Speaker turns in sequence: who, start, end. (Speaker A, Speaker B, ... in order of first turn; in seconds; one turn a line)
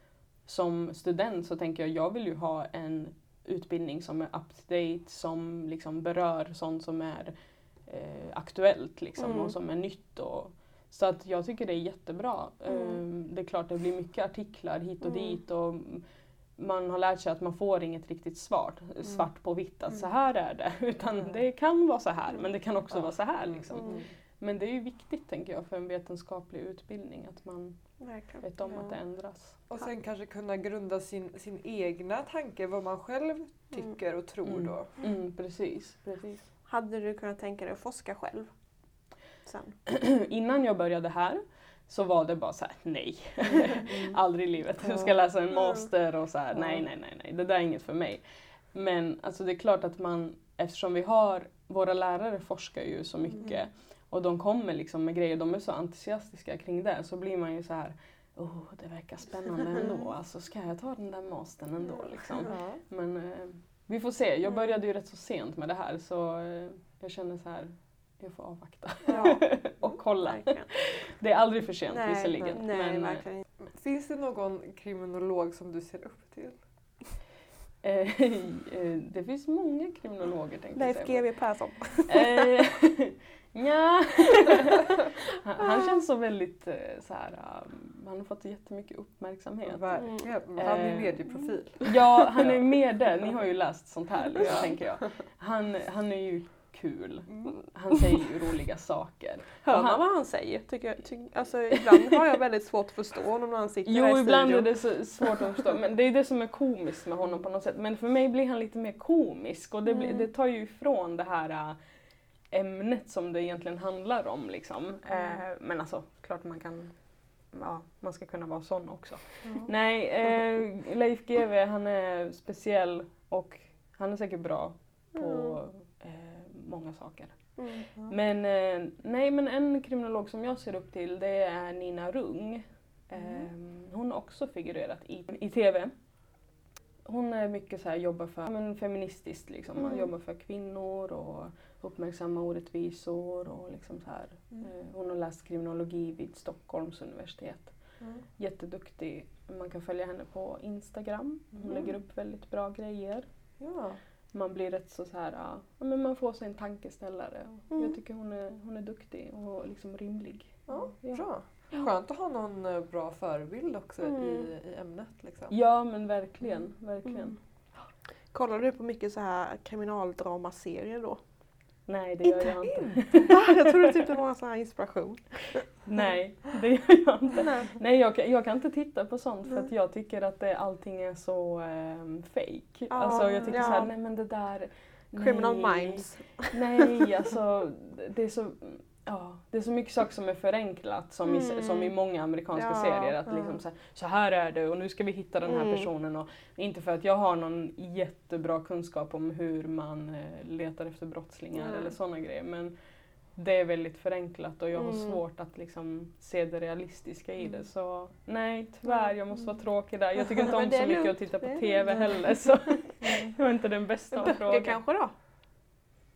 Speaker A: 0.5-16.1
Speaker B: 9.2-9.5
Speaker B: 12.7-13.0
Speaker B: 15.0-15.4
Speaker A: 16.6-29.6
Speaker C: 22.9-24.1
Speaker B: 23.7-24.0
Speaker B: 28.0-28.8
Speaker C: 28.7-28.9
Speaker C: 29.7-34.9
Speaker A: 34.5-36.5
Speaker B: 36.7-38.5
Speaker B: 39.4-39.8
Speaker A: 39.9-73.2
Speaker C: 43.9-44.2
Speaker B: 45.5-45.9
Speaker B: 61.9-62.5
Speaker C: 62.5-62.8
Speaker B: 69.1-71.1
Speaker B: 71.9-73.5
Speaker C: 73.6-76.6
Speaker A: 77.8-91.3
Speaker B: 80.8-82.5
Speaker C: 89.7-92.7
Speaker B: 90.0-90.3
Speaker A: 91.8-100.0
Speaker C: 94.4-94.8
Speaker B: 99.6-105.7
Speaker A: 103.8-111.8
Speaker B: 109.9-110.3
Speaker A: 112.5-117.0
Speaker A: 117.5-135.9
Speaker B: 125.2-125.6
Speaker B: 127.6-127.9
Speaker B: 133.2-133.5
Speaker A: 137.1-147.8
Speaker B: 139.8-140.1
Speaker C: 148.0-148.2
Speaker A: 148.4-153.3
Speaker C: 153.6-154.0
Speaker A: 154.3-161.9
Speaker B: 157.7-158.0
Speaker C: 160.7-165.5
Speaker B: 164.0-164.5
Speaker A: 165.5-167.4
Speaker B: 167.1-167.3
Speaker B: 168.3-171.2
Speaker A: 171.9-174.0
Speaker C: 172.7-173.0
Speaker B: 173.2-175.8
Speaker A: 175.8-202.8
Speaker B: 177.4-177.7
Speaker B: 182.9-183.9
Speaker B: 185.1-186.8
Speaker B: 191.2-191.9
Speaker B: 192.6-193.5
Speaker B: 195.5-195.9
Speaker B: 201.6-201.9
Speaker A: 203.3-214.8
Speaker B: 204.7-205.2
Speaker B: 208.9-209.1
Speaker B: 210.2-213.2
Speaker B: 214.1-215.1